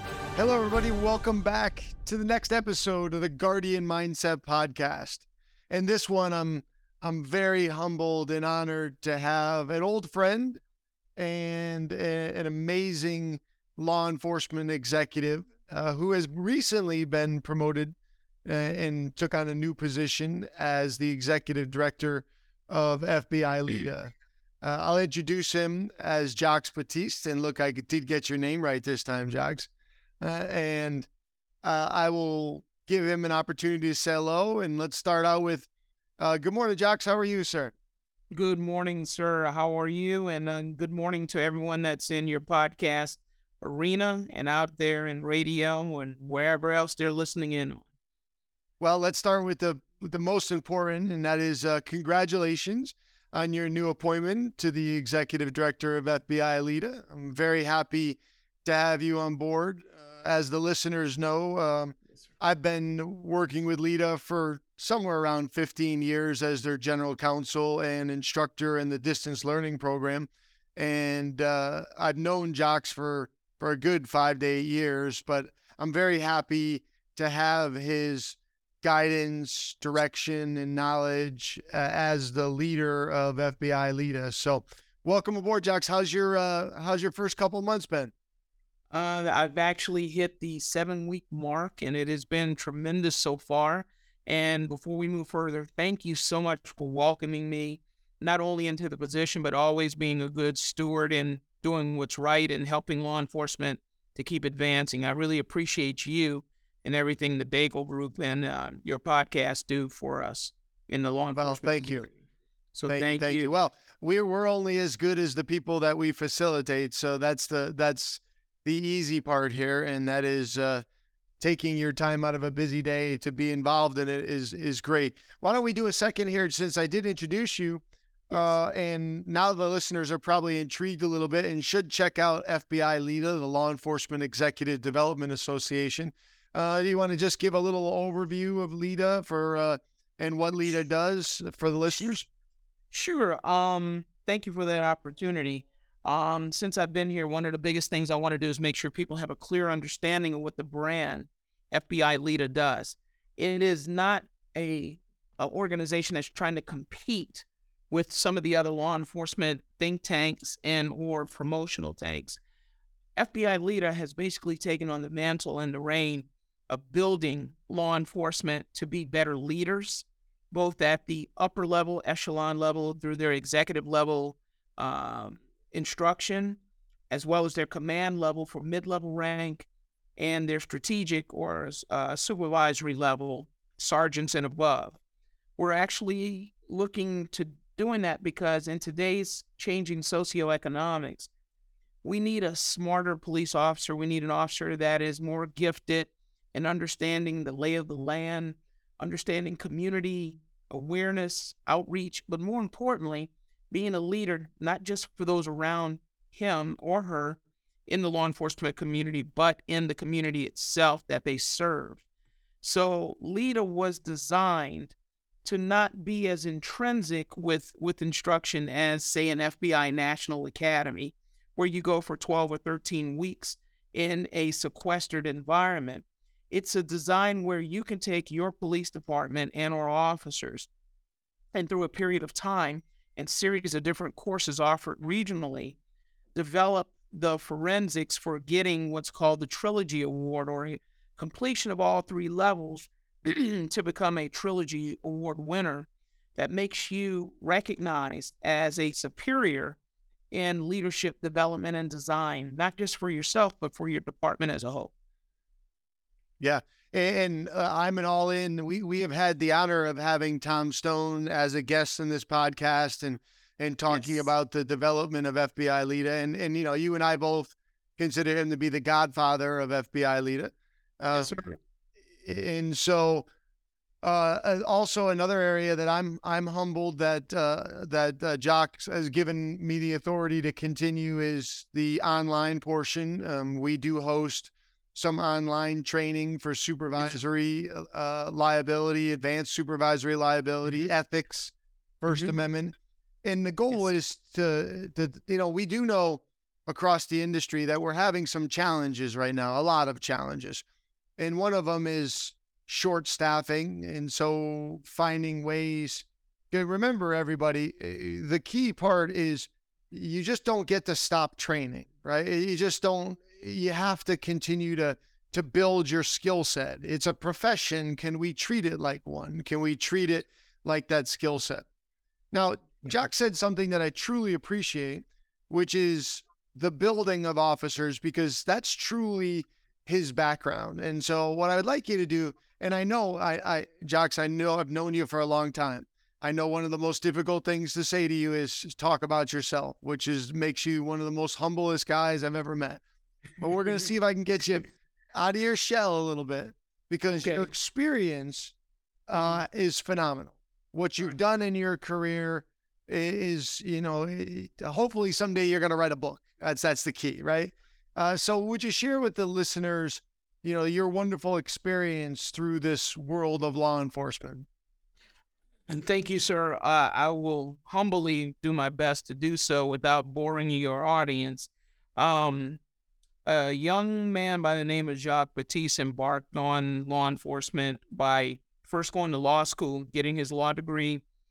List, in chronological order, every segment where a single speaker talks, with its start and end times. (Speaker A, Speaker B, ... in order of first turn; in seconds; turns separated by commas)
Speaker A: 0.3-10.6, Speaker A: 11.2-29.7, Speaker A: 30.2-31.1, Speaker A: 31.6-35.7, Speaker A: 36.2-37.7, Speaker B: 38.3-47.9, Speaker A: 48.8-88.1, Speaker B: 88.9-112.1, Speaker A: 111.3-112.1, Speaker B: 112.8-113.5, Speaker A: 112.9-120.8, Speaker A: 121.4-142.3, Speaker B: 142.9-162.4, Speaker B: 163.2-185.0, Speaker B: 185.6-191.3, Speaker B: 192.0-212.0, Speaker B: 212.6-230.7, Speaker B: 231.5-235.8, Speaker B: 236.3-249.8, Speaker B: 250.3-254.9, Speaker A: 256.4-271.3, Speaker B: 263.9-264.2, Speaker B: 271.1-271.6, Speaker A: 272.2-273.3, Speaker A: 274.0-300.6, Speaker A: 301.2-321.7, Speaker A: 322.3-342.8, Speaker A: 343.4-348.6, Speaker B: 347.2-347.5, Speaker A: 349.1-364.5, Speaker B: 365.7-372.6, Speaker B: 373.2-381.0